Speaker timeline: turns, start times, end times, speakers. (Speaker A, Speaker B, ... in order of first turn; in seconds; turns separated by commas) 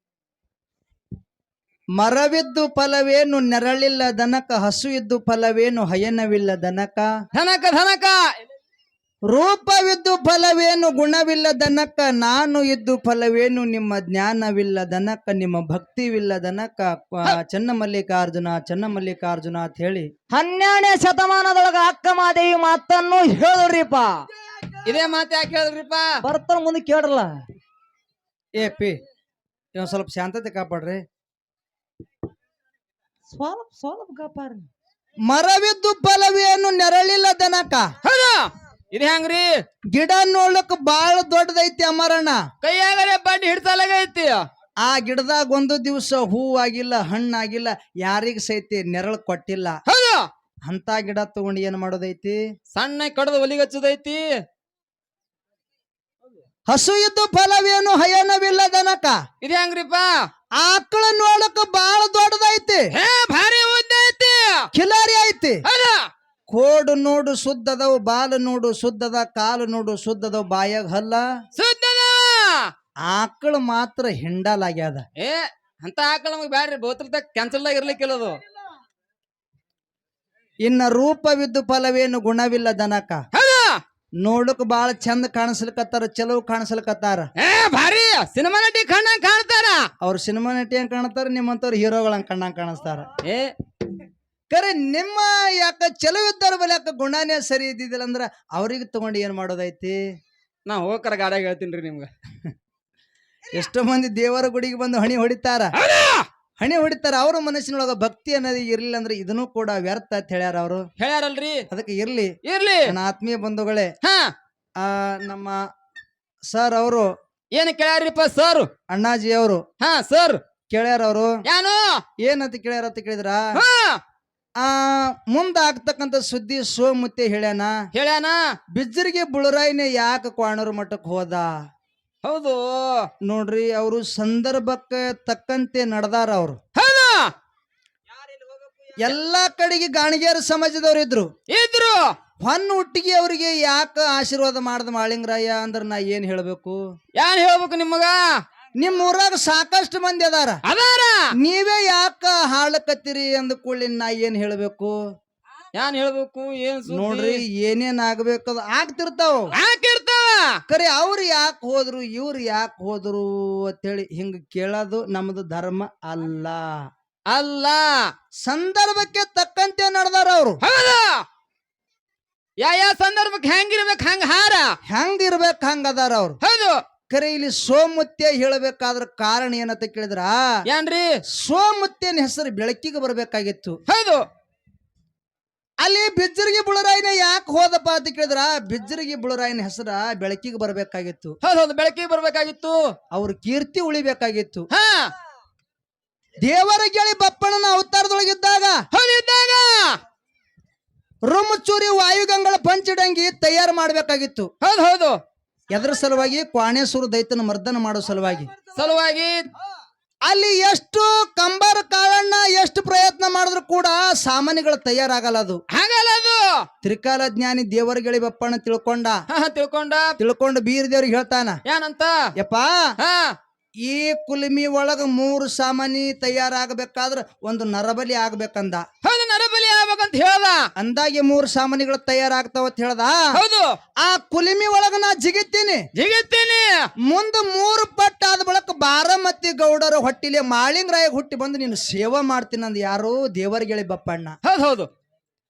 Speaker A: 1.9-7.1, Speaker B: 7.3-8.2, Speaker A: 9.3-20.1, Speaker C: 20.3-24.2, Speaker B: 24.8-26.1, Speaker C: 26.2-27.4, Speaker A: 28.6-29.0, Speaker A: 29.7-31.0, Speaker C: 33.3-34.7, Speaker A: 35.2-37.9, Speaker B: 38.0-39.5, Speaker A: 39.9-42.4, Speaker B: 42.6-44.4, Speaker A: 44.8-49.8, Speaker B: 49.9-50.3, Speaker A: 50.6-52.4, Speaker B: 52.7-54.2, Speaker A: 56.7-59.2, Speaker B: 59.4-60.1, Speaker A: 60.6-62.9, Speaker B: 62.9-64.7, Speaker A: 64.7-65.6, Speaker B: 65.6-66.1, Speaker A: 66.5-71.2, Speaker B: 71.5-72.7, Speaker A: 73.0-75.0, Speaker B: 75.2-78.4, Speaker A: 80.6-83.2, Speaker B: 83.3-83.8, Speaker A: 84.2-87.3, Speaker B: 87.4-89.9, Speaker A: 90.0-93.1, Speaker B: 93.2-93.5, Speaker A: 94.5-100.0, Speaker B: 100.7-102.1, Speaker A: 103.5-105.7, Speaker B: 105.8-106.3, Speaker A: 106.6-110.9, Speaker B: 111.0-111.6, Speaker A: 111.7-112.3, Speaker B: 112.4-112.9, Speaker A: 112.9-113.9, Speaker B: 114.0-114.3, Speaker A: 114.8-115.6, Speaker A: 116.5-117.1, Speaker B: 117.5-118.7, Speaker A: 118.9-119.6, Speaker B: 119.8-120.4, Speaker A: 120.7-121.3, Speaker B: 121.4-122.0, Speaker A: 122.2-123.5, Speaker B: 123.5-124.0, Speaker A: 124.6-127.7, Speaker B: 127.9-128.4, Speaker A: 128.7-131.5, Speaker B: 132.2-133.1, Speaker A: 133.2-136.6, Speaker B: 136.7-137.3, Speaker A: 139.0-141.3, Speaker B: 141.5-142.1, Speaker A: 142.4-146.8, Speaker B: 147.1-148.2, Speaker A: 148.8-150.6, Speaker B: 150.6-151.3, Speaker A: 151.4-154.9, Speaker B: 155.7-157.4, Speaker A: 156.9-159.5, Speaker B: 159.5-160.6, Speaker A: 160.7-166.8, Speaker B: 167.3-168.1, Speaker A: 168.4-170.6, Speaker B: 170.6-171.2, Speaker B: 172.6-174.7, Speaker A: 174.9-176.4, Speaker B: 176.4-176.8, Speaker A: 177.1-180.6, Speaker B: 180.7-181.1, Speaker A: 181.3-183.8, Speaker B: 183.9-184.2, Speaker A: 185.8-191.3, Speaker B: 191.4-192.8, Speaker A: 193.1-194.7, Speaker B: 194.7-195.1, Speaker A: 196.4-198.8, Speaker B: 198.9-200.0, Speaker A: 201.3-204.5, Speaker B: 204.6-205.2, Speaker A: 205.7-208.5, Speaker B: 208.7-209.4, Speaker A: 210.2-215.6, Speaker B: 215.7-216.6, Speaker A: 216.8-219.2, Speaker B: 219.3-220.1, Speaker A: 220.2-221.6, Speaker B: 221.7-222.1, Speaker A: 222.4-222.8, Speaker B: 223.0-223.4, Speaker A: 223.8-228.8, Speaker B: 229.0-230.7, Speaker A: 230.8-233.4, Speaker B: 233.3-233.8, Speaker A: 234.0-235.8, Speaker B: 235.9-236.9, Speaker A: 237.0-244.4, Speaker B: 244.4-244.9